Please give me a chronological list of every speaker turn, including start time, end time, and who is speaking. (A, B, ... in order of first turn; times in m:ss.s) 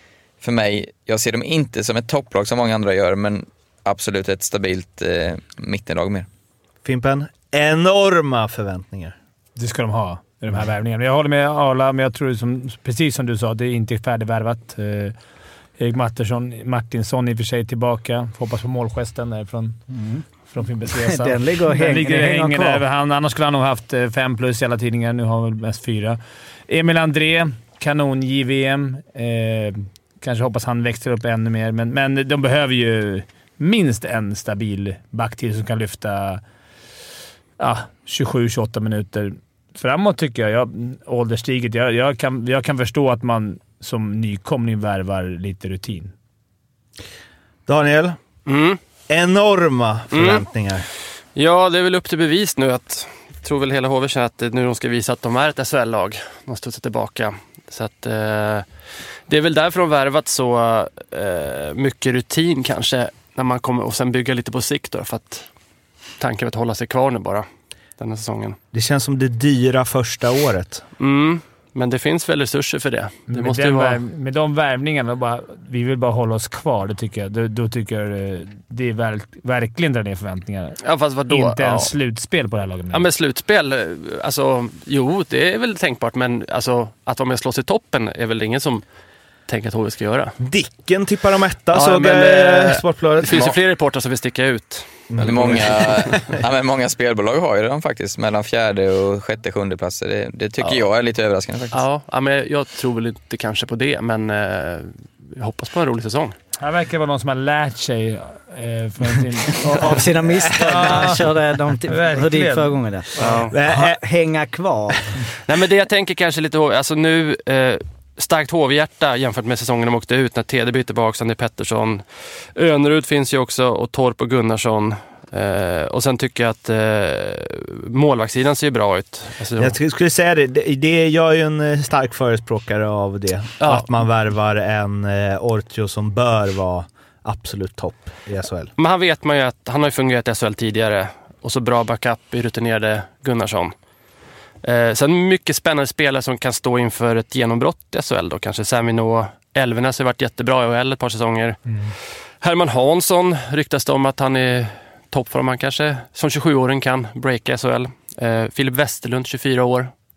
0:00.4-0:06.3 A
0:06.8-0:09.1 B
0:09.6-0:15.1 C
0:15.8-0:19.8 C
0:19.9-0:20.2 D
0:20.5-0:36.4 C
0:20.9-0:22.8 D
0:37.6-0:46.1 C
0:47.7-0:48.2 B
0:48.4-0:48.8 E
0:49.1-0:50.9 B
0:50.1-0:50.4 E
0:51.3-0:58.6 E
0:59.3-1:05.4 E
1:06.2-1:07.4 E
1:08.0-1:08.6 E
1:08.7-1:10.8 B
1:11.0-1:14.0 E
1:13.3-1:23.1 C
1:20.8-1:21.9 E
1:22.9-1:28.8 E
1:29.5-1:30.3 E
1:30.4-1:33.6 B
1:31.7-1:36.2 E
1:35.1-1:36.4 B
1:35.2-1:41.8 A
1:41.7-1:46.3 E
1:46.6-1:51.3 C
1:49.6-1:55.2 D
1:51.9-1:52.8 C
1:53.2-1:53.5 E
1:53.2-1:54.0 B
1:55.4-2:02.0 E
2:02.5-2:09.8 E
2:09.6-2:18.7 B
2:13.6-2:14.0 E
2:18.8-2:23.7 E
2:24.6-2:31.6 E
2:31.7-2:31.9 C
2:32.4-2:39.9 E